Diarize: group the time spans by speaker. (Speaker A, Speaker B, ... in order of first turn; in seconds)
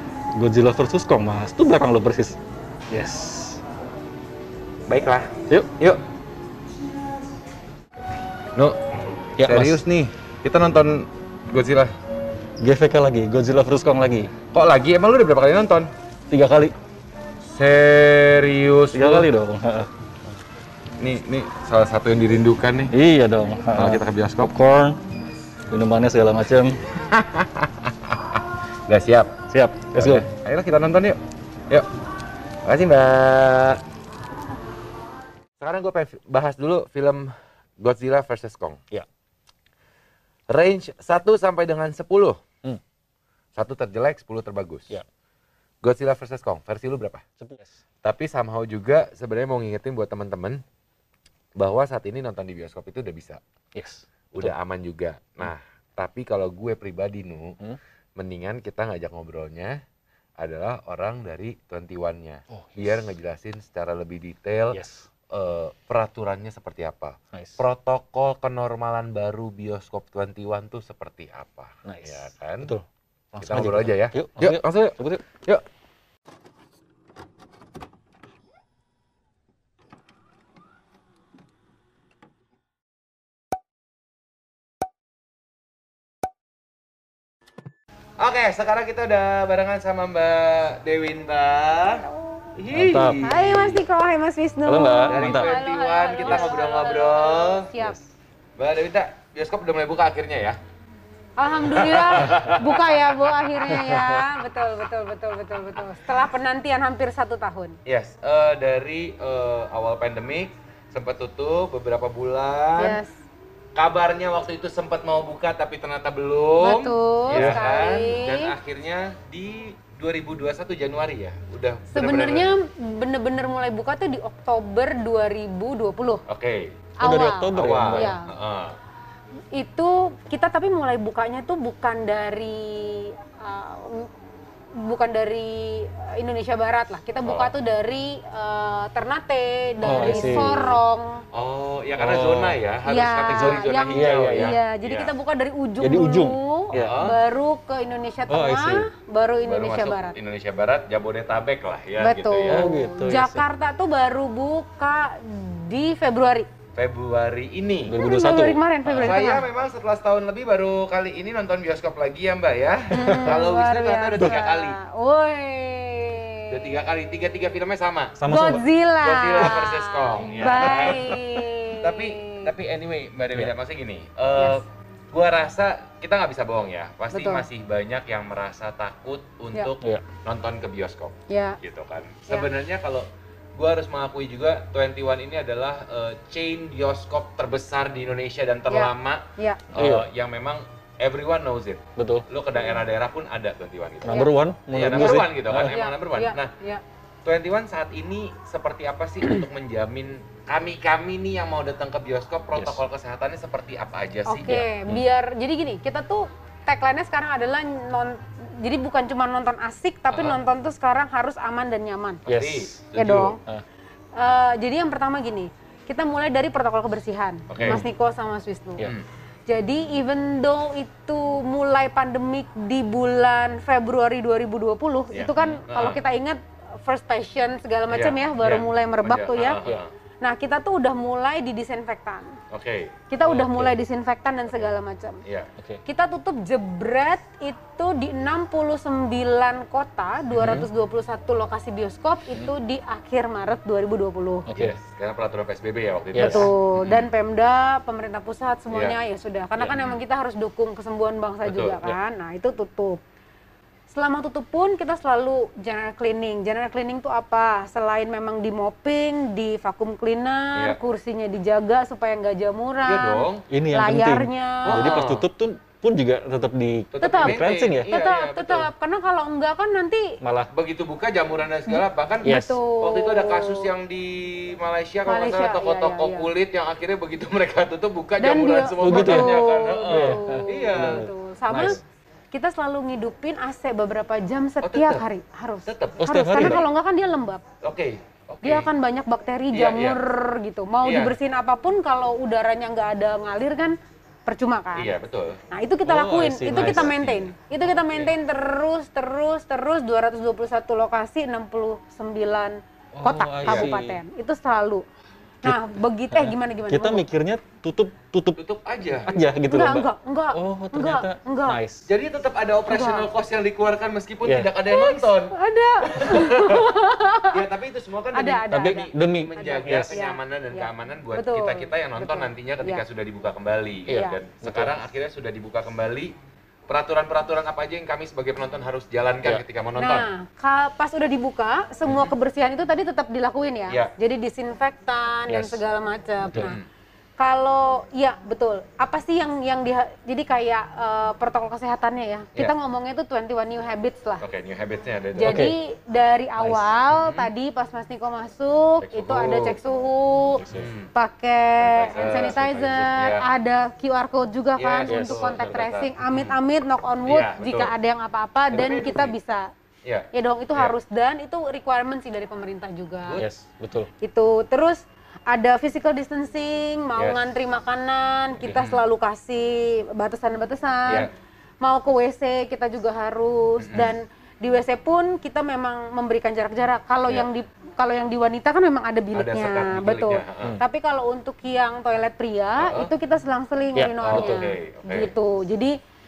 Speaker A: 0.3-2.4, 2.9-3.6, 9.4-9.8, 12.6-14.3, 16.3-16.7, 18.9-19.9, 22.9-25.0, 25.7-26.8, 29.5-30.3, 47.4-47.7, 53.7-54.5, 62.5-63.0, 64.7-65.1, 67.3-67.6, 71.8-75.2, 92.7-93.2, 94.6-95.5, 96.2-96.5, 103.7-104.2, 117.3-117.6, 127.0-128.1, 139.8-140.8, 141.9-142.6, 143.3-144.6, 145.8-147.0, 148.3-148.9, 152.5-153.4, 157.9-159.2, 168.2-168.6, 170.3-171.1, 189.7-190.1, 192.0-192.2, 194.0-195.7, 202.5-202.8, 204.5-205.0, 212.2-212.8, 217.6-217.9, 225.3-225.6, 233.2-233.8, 240.4-240.7, 244.5-244.7, 246.1-246.5, 263.5-267.9, 270.2-270.5, 272.2-272.6, 278.8-279.4, 279.9-281.8, 286.0-286.6, 295.8-297.3, 303.0-304.0, 306.1-308.4, 309.1-311.8, 314.2-314.5, 318.5-320.0, 323.9-324.7, 335.3-335.6, 336.3-336.5, 345.2-345.5, 346.4-346.7, 350.4-350.7, 354.9-355.7, 363.2-363.9, 383.8-384.3
Speaker B: 4.9-6.0, 9.4-11.9, 14.5-15.9, 17.5-19.3, 21.0-22.9, 23.7-24.5, 27.0-29.3, 29.9-31.2, 32.6-33.8, 35.6-38.8, 40.5-42.4, 43.5-44.9, 45.8-47.2, 48.0-50.6, 51.6-53.4, 54.3-57.6, 58.2-59.8, 60.4-72.8, 73.4-75.6, 88.2-92.0, 92.5-93.8, 95.1-97.7, 98.6-100.6, 101.7-103.1, 107.8-113.0, 113.8-122.5, 126.3-126.7, 127.5-128.8, 137.2-137.5, 139.9-140.7, 141.3-145.1, 146.8-147.2, 149.4-152.7, 156.8-158.0, 159.0-164.8, 166.5-168.2, 169.0-171.2, 171.8-196.5, 197.2-204.5, 210.1-210.4, 212.2-213.4, 217.5-217.8, 225.1-226.0, 227.9-229.9, 232.5-233.0, 235.2-235.5, 240.3-240.7, 244.5-247.1, 248.7-249.0, 249.7-250.0, 251.4-251.9, 262.8-263.4, 264.6-265.3, 266.9-268.7, 270.5-281.1, 284.6-285.0, 285.6-286.6, 287.6-288.7, 289.5-290.0, 290.8-291.1, 294.7-295.4, 296.5-297.0, 297.6-298.1, 303.0-303.7, 308.4-309.2, 311.9-316.8, 317.3-326.1, 326.7-330.1, 331.9-332.1, 336.3-336.6, 344.2-345.4, 346.9-347.3, 348.8-349.6, 350.5-350.9, 351.6-353.2, 354.6-356.4, 357.0-357.7, 358.5-359.1, 359.8-360.7, 367.0-367.2, 368.4-368.8, 373.6-373.9, 379.1-380.6, 382.6-382.9, 384.0-385.1
Speaker C: 93.2-98.0, 101.4-107.8, 112.8-113.1, 116.6-118.5, 121.9-126.2, 127.0-128.3, 129.5-134.1, 134.7-141.2, 142.8-150.2, 152.0-156.5, 157.9-159.5, 162.9-166.7, 168.3-172.5, 174.4-174.6, 177.1-177.5, 181.3-181.6, 188.7-189.6, 194.1-194.3, 194.9-196.8, 204.2-212.2, 212.9-213.4, 214.1-218.9, 219.5-229.6, 230.2-232.4, 233.1-235.2, 235.8-244.5, 246.2-253.0, 253.9-265.0, 267.0-270.2, 271.7-273.7, 275.1-276.3, 278.2-281.8, 282.3-287.4, 288.4-294.9, 295.5-304.8, 305.4-307.1, 309.5-311.6, 312.6-313.1, 314.7-317.4, 318.1-322.8, 323.9-324.1, 329.8-336.6, 337.2-344.2, 345.2-359.5, 360.1-363.2, 364.0-371.1, 371.6-385.7